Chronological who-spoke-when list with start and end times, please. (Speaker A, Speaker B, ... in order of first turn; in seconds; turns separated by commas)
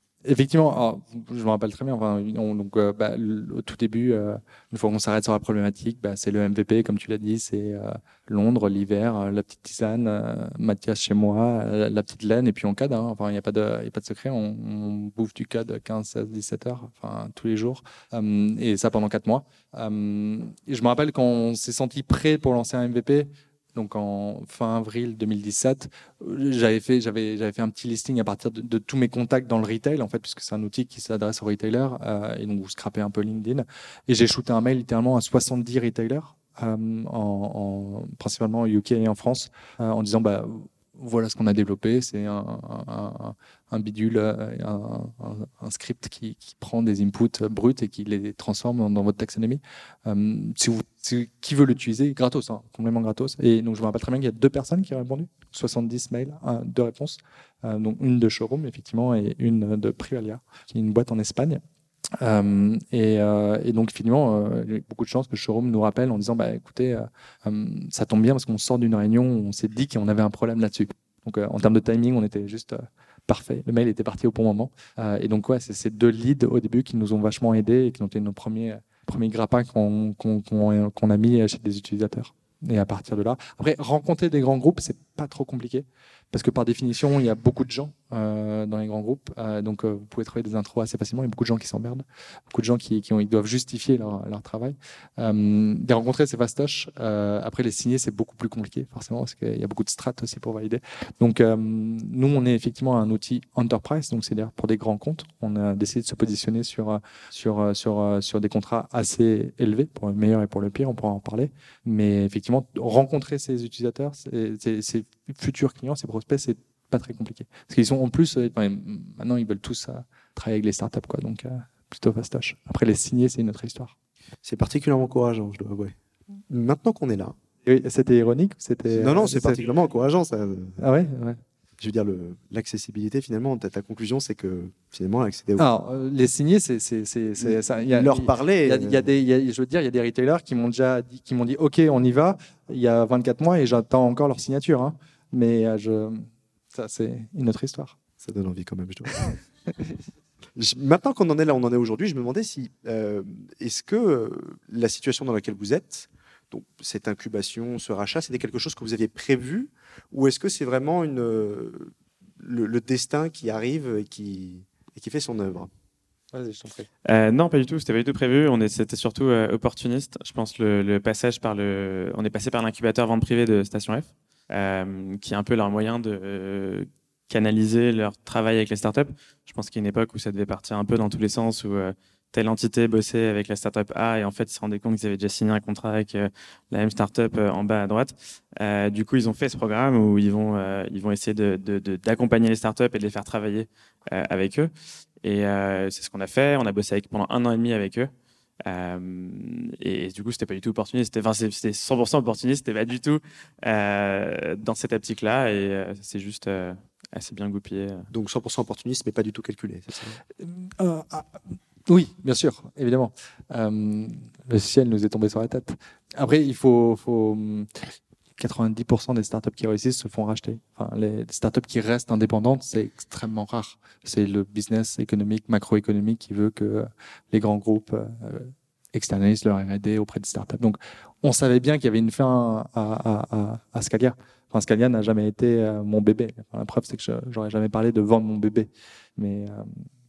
Speaker A: 0.2-61.6, Speaker A: 62.2-123.9, Speaker B: 124.4-125.9, Speaker B: 126.5-127.3, Speaker A: 127.6-129.6, Speaker B: 128.9-130.8, Speaker A: 130.8-131.4, Speaker B: 131.8-135.7, Speaker A: 135.6-147.9, Speaker B: 137.4-139.1, Speaker B: 148.2-149.4, Speaker B: 150.6-165.7, Speaker A: 166.3-166.9, Speaker C: 167.1-194.7, Speaker C: 195.2-198.1, Speaker C: 198.6-208.1, Speaker B: 208.1-210.2, Speaker A: 210.4-217.8, Speaker A: 218.4-239.8